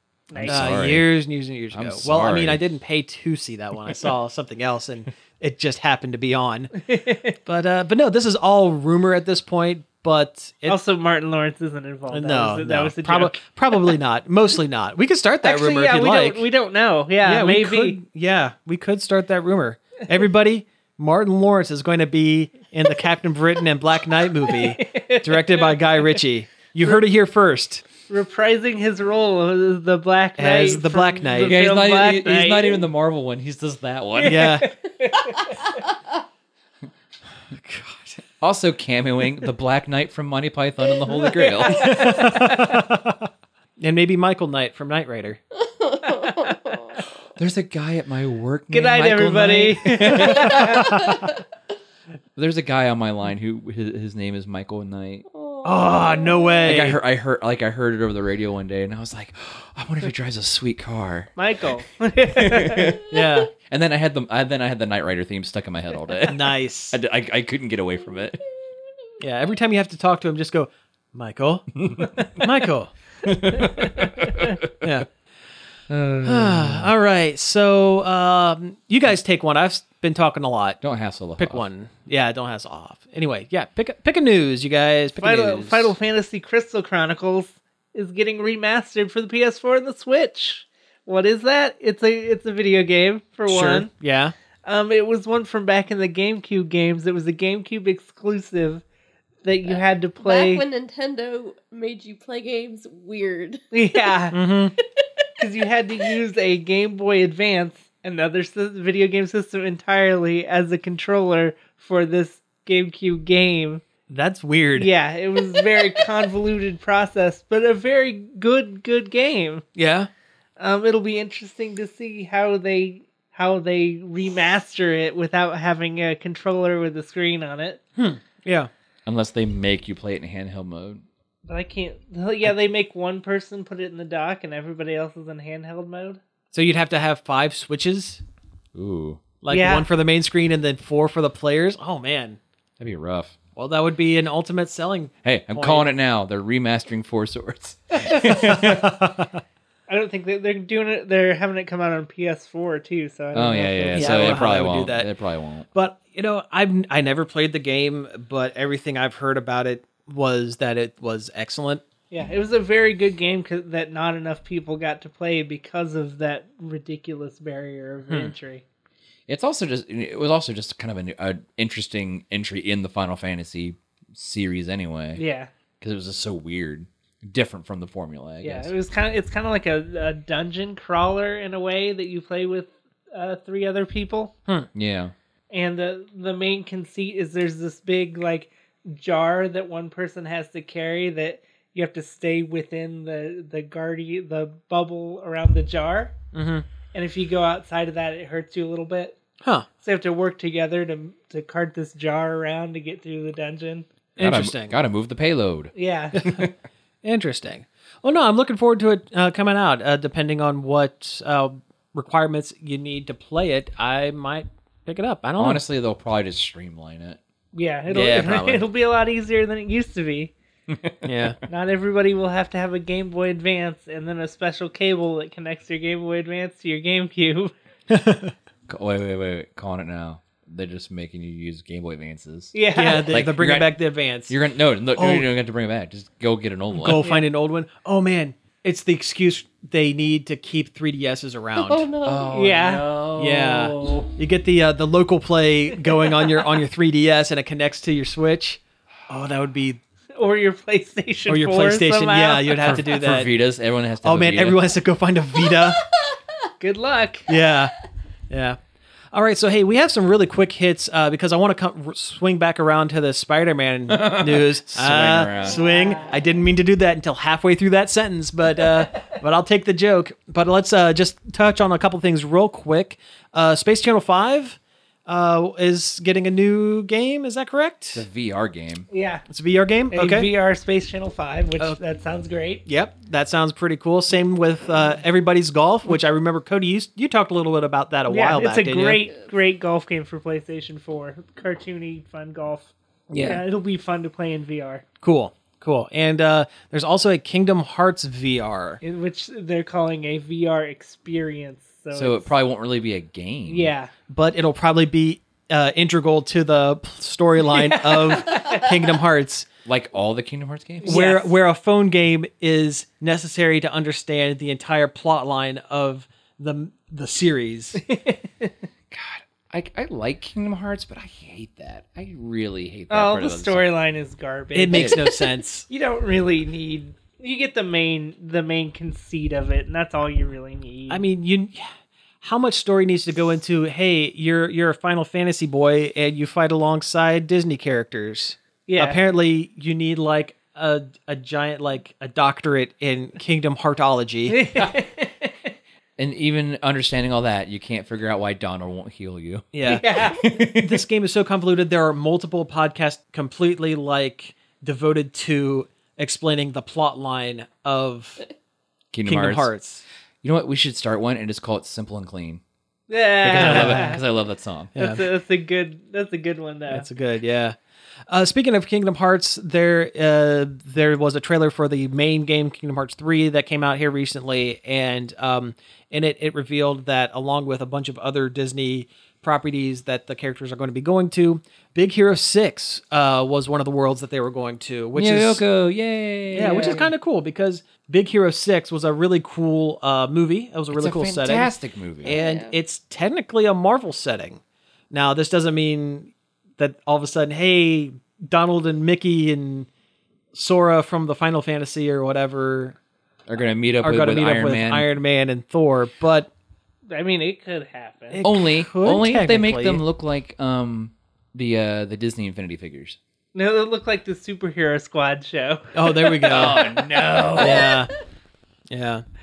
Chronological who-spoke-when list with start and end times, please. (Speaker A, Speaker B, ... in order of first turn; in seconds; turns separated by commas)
Speaker A: 0.3-0.8, Speaker B: 0.3-1.1, Speaker C: 0.5-6.8, Speaker B: 1.7-2.6, Speaker A: 6.8-7.4, Speaker C: 7.5-10.8, Speaker A: 10.7-14.0, Speaker C: 12.1-16.4, Speaker A: 15.4-18.0, Speaker C: 17.2-27.9, Speaker A: 24.5-26.2, Speaker A: 28.1-32.8, Speaker C: 30.4-31.6, Speaker B: 31.4-34.5, Speaker A: 34.2-35.8, Speaker C: 34.2-34.7, Speaker C: 37.5-38.2, Speaker B: 38.4-42.1, Speaker A: 41.4-42.8, Speaker C: 41.6-43.2, Speaker C: 43.8-45.4, Speaker D: 45.7-47.0, Speaker A: 46.2-46.5, Speaker B: 47.4-50.8, Speaker A: 48.7-50.9, Speaker C: 50.1-51.1, Speaker B: 52.4-55.3, Speaker D: 55.3-56.7, Speaker C: 55.6-57.0, Speaker B: 56.6-61.3, Speaker A: 61.4-63.0, Speaker B: 62.3-63.0, Speaker C: 63.1-63.5, Speaker B: 63.6-68.4, Speaker C: 66.3-67.0, Speaker C: 69.2-72.9, Speaker B: 71.8-72.1, Speaker B: 73.2-74.9, Speaker C: 74.8-75.1, Speaker B: 75.9-76.9, Speaker C: 76.2-80.8, Speaker B: 80.8-81.7, Speaker C: 81.4-85.9, Speaker A: 85.2-93.9, Speaker C: 93.5-94.3, Speaker A: 94.7-98.8, Speaker A: 99.4-100.7, Speaker D: 99.7-104.1, Speaker A: 103.7-104.4, Speaker C: 104.3-104.8, Speaker A: 105.4-113.8, Speaker C: 114.1-114.9, Speaker A: 114.8-119.6, Speaker C: 119.8-120.1, Speaker A: 120.6-127.8, Speaker C: 128.0-128.7, Speaker B: 129.1-131.0, Speaker A: 131.5-136.2, Speaker C: 136.5-138.2, Speaker B: 138.7-139.2, Speaker C: 139.4-142.4, Speaker A: 139.5-139.9, Speaker B: 142.8-143.4, Speaker C: 143.6-145.9, Speaker B: 145.2-148.9, Speaker C: 148.5-149.3, Speaker A: 149.9-154.4, Speaker B: 153.3-155.7, Speaker C: 153.9-155.1, Speaker C: 155.7-161.8, Speaker A: 162.1-168.6, Speaker B: 169.3-175.2, Speaker A: 175.2-175.5, Speaker B: 175.8-178.7, Speaker A: 178.4-184.3, Speaker B: 184.7-185.1, Speaker A: 185.5-196.1, Speaker C: 196.3-196.7, Speaker A: 196.9-199.2, Speaker A: 199.8-203.9, Speaker C: 204.2-204.8, Speaker B: 204.2-206.5, Speaker A: 205.8-206.2, Speaker C: 206.2-206.4, Speaker C: 207.0-215.6, Speaker B: 215.4-217.2, Speaker A: 217.5-220.3, Speaker B: 217.9-218.6, Speaker C: 217.9-218.4, Speaker B: 220.7-221.0, Speaker C: 221.0-221.4, Speaker A: 221.5-227.5, Speaker C: 227.9-228.3, Speaker B: 228.7-233.7, Speaker A: 232.5-233.2, Speaker C: 232.7-234.4, Speaker B: 234.3-237.1, Speaker C: 234.9-235.3, Speaker C: 236.7-241.9, Speaker A: 236.9-237.3, Speaker D: 241.6-242.3, Speaker B: 242.0-244.0, Speaker A: 242.3-242.8, Speaker C: 243.2-249.8, Speaker A: 250.2-252.7, Speaker C: 251.3-253.3, Speaker B: 252.6-254.7, Speaker C: 254.0-255.8, Speaker A: 256.6-257.4, Speaker C: 257.3-257.7, Speaker C: 258.3-258.6, Speaker C: 259.1-278.1, Speaker B: 263.9-265.6, Speaker A: 265.5-266.0, Speaker A: 268.9-269.2, Speaker B: 277.9-278.9, Speaker A: 278.9-279.2, Speaker C: 279.3-280.3, Speaker A: 279.9-282.6, Speaker C: 282.7-289.0, Speaker A: 288.1-294.8, Speaker C: 293.1-293.4, Speaker C: 295.0-298.8, Speaker A: 298.8-302.3, Speaker B: 301.9-303.7, Speaker A: 303.5-303.9, Speaker C: 304.1-309.5, Speaker A: 307.5-308.9, Speaker B: 309.7-311.0, Speaker A: 310.8-311.4, Speaker C: 310.8-317.8, Speaker A: 317.8-318.5, Speaker B: 318.9-323.6, Speaker A: 322.9-325.1, Speaker C: 324.5-325.7, Speaker B: 324.7-325.0, Speaker A: 325.7-331.0, Speaker C: 330.9-331.7, Speaker C: 332.2-344.4, Speaker A: 338.7-339.0, Speaker A: 344.3-345.5, Speaker B: 346.0-350.9, Speaker C: 349.5-349.9, Speaker A: 349.6-350.2, Speaker C: 350.5-358.2, Speaker B: 358.9-359.5, Speaker C: 359.1-359.8, Speaker B: 360.2-362.4, Speaker A: 362.9-364.0, Speaker B: 363.2-364.7, Speaker C: 363.3-364.0, Speaker C: 364.8-365.0, Speaker A: 364.8-366.9, Speaker C: 366.7-367.6, Speaker C: 368.1-385.4, Speaker B: 384.9-386.9, Speaker A: 386.4-386.9, Speaker C: 386.4-391.5, Speaker B: 390.7-392.2, Speaker C: 392.0-394.4, Speaker D: 392.1-392.6, Speaker C: 394.9-399.7, Speaker C: 400.3-402.8, Speaker B: 403.3-404.9, Speaker C: 403.8-406.3, Speaker A: 406.9-408.2, Speaker C: 408.1-409.8, Speaker B: 408.2-413.0, Speaker A: 413.4-417.7, Speaker C: 415.8-416.6, Speaker B: 416.3-417.8, Speaker C: 417.4-417.9, Speaker C: 418.7-419.0